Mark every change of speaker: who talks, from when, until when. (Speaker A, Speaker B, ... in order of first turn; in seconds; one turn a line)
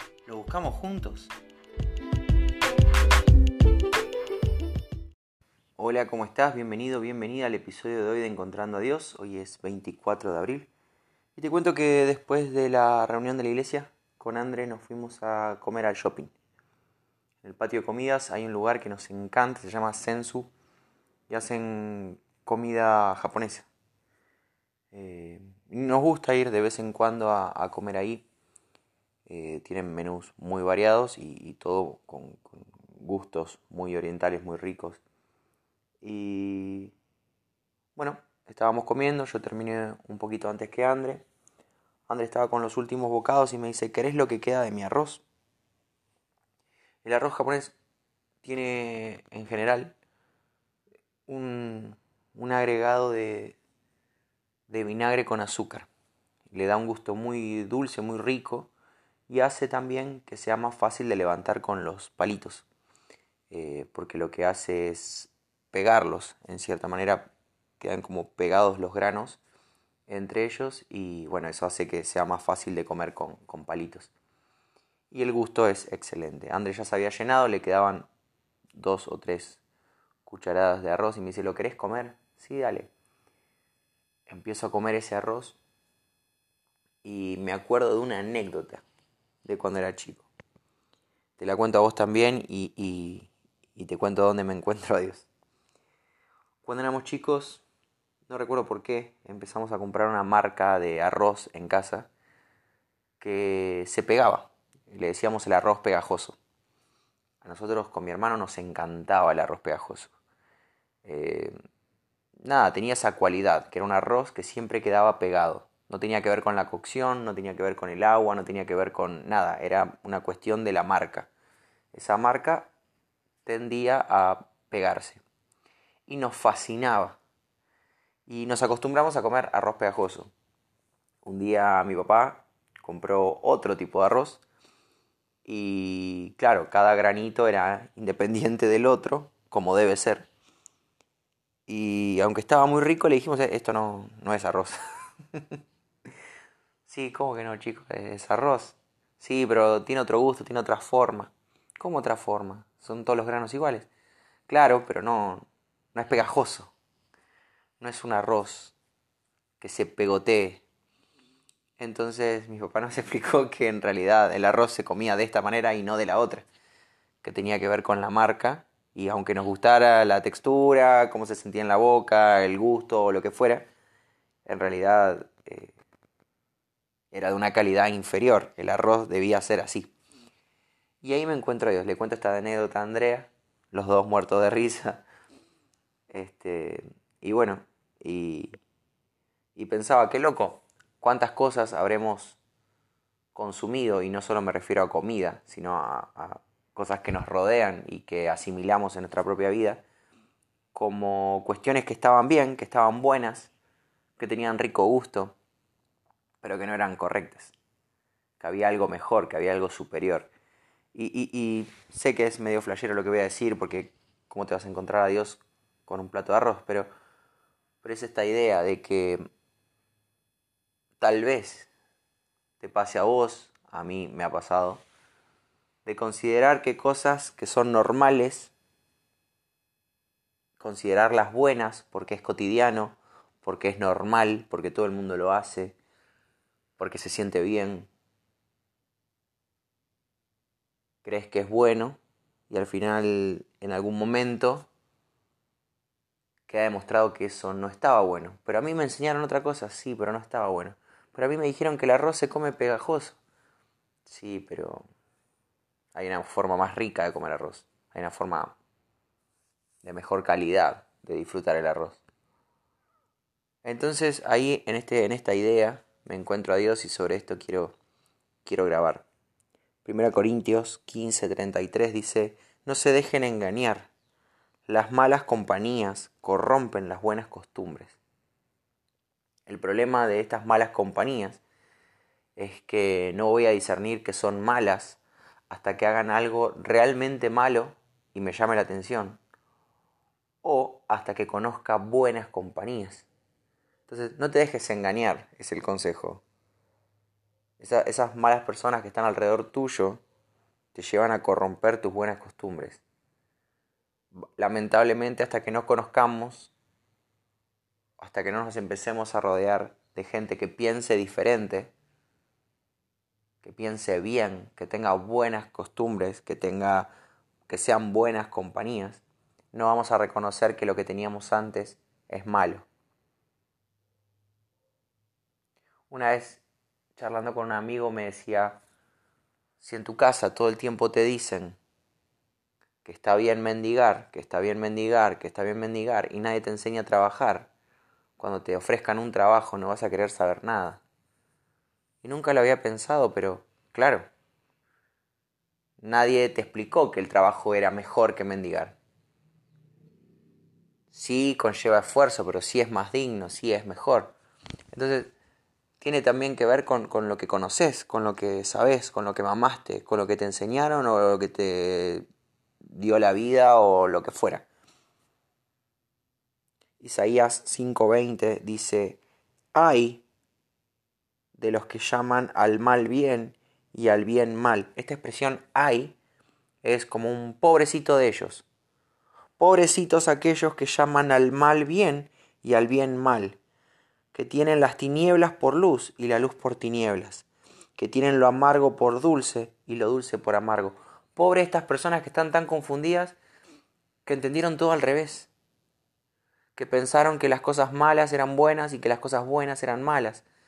Speaker A: 0.2-1.3
Speaker A: 5.8-10.7
Speaker A: 11.3-16.3
Speaker A: 17.4-20.5
Speaker A: 21.3-23.7
Speaker A: 24.9-28.2
Speaker A: 29.3-35.0
Speaker A: 36.0-36.9
Speaker A: 38.0-41.2
Speaker A: 42.1-45.2
Speaker A: 47.0-47.7
Speaker A: 48.4-49.9
Speaker A: 51.3-53.6
Speaker A: 54.7-55.9
Speaker A: 56.5-58.7
Speaker A: 59.3-62.6
Speaker A: 63.5-69.4
Speaker A: 70.1-74.1
Speaker A: 75.1-78.1
Speaker A: 78.7-79.6
Speaker A: 80.2-82.9
Speaker A: 84.3-85.6
Speaker A: 87.0-88.8
Speaker A: 89.4-90.3
Speaker A: 91.4-95.3
Speaker A: 96.6-97.6
Speaker A: 98.3-102.1
Speaker A: 103.2-106.4
Speaker A: 107.4-110.1
Speaker A: 111.0-111.5
Speaker A: 112.4-121.3
Speaker A: 121.9-122.7
Speaker A: 123.4-125.2
Speaker A: 126.1-127.2
Speaker A: 128.2-130.3
Speaker A: 131.2-134.4
Speaker A: 135.4-140.3
Speaker A: 141.7-144.8
Speaker A: 145.3-145.6
Speaker A: 146.9-153.9
Speaker A: 154.5-156.7
Speaker A: 157.8-158.7
Speaker A: 159.6-160.6
Speaker A: 161.8-166.4
Speaker A: 167.2-173.7
Speaker A: 174.4-175.8
Speaker A: 177.1-179.9
Speaker A: 181.0-185.0
Speaker A: 186.1-188.6
Speaker A: 189.5-192.4
Speaker A: 193.3-199.8
Speaker A: 200.7-203.5
Speaker A: 204.2-205.3
Speaker A: 206.4-207.5
Speaker A: 208.4-210.3
Speaker A: 210.9-216.9
Speaker A: 217.8-219.2
Speaker A: 221.0-221.7
Speaker A: 222.6-224.8
Speaker A: 225.8-228.5
Speaker A: 230.6-235.8
Speaker A: 236.8-237.9
Speaker A: 241.0-242.0
Speaker A: 242.5-244.7
Speaker A: 246.5-253.2
Speaker A: 254.0-254.8
Speaker A: 255.9-258.6
Speaker A: 259.8-262.0
Speaker A: 263.6-267.8
Speaker A: 268.4-269.0
Speaker A: 269.8-273.9
Speaker A: 274.7-278.0
Speaker A: 279.5-281.4
Speaker A: 282.4-289.2
Speaker A: 290.4-293.1
Speaker A: 293.9-296.2
Speaker A: 297.6-300.0
Speaker A: 300.7-302.8
Speaker A: 304.4-306.5
Speaker A: 308.0-311.7
Speaker A: 313.4-316.9
Speaker A: 317.5-322.6
Speaker A: 325.9-326.4
Speaker A: 326.9-328.6
Speaker A: 329.6-331.6
Speaker A: 332.8-337.5
Speaker A: 338.2-340.8
Speaker A: 342.0-344.1
Speaker A: 345.8-348.8
Speaker A: 350.9-354.1
Speaker A: 354.7-355.1
Speaker A: 355.8-362.1
Speaker A: 362.6-364.4
Speaker A: 366.8-369.0
Speaker A: 369.5-370.0
Speaker A: 371.4-375.9
Speaker A: 376.6-378.4
Speaker A: 379.4-383.4
Speaker A: 384.1-387.2
Speaker A: 387.8-393.2
Speaker A: 394.0-395.3
Speaker A: 396.6-400.2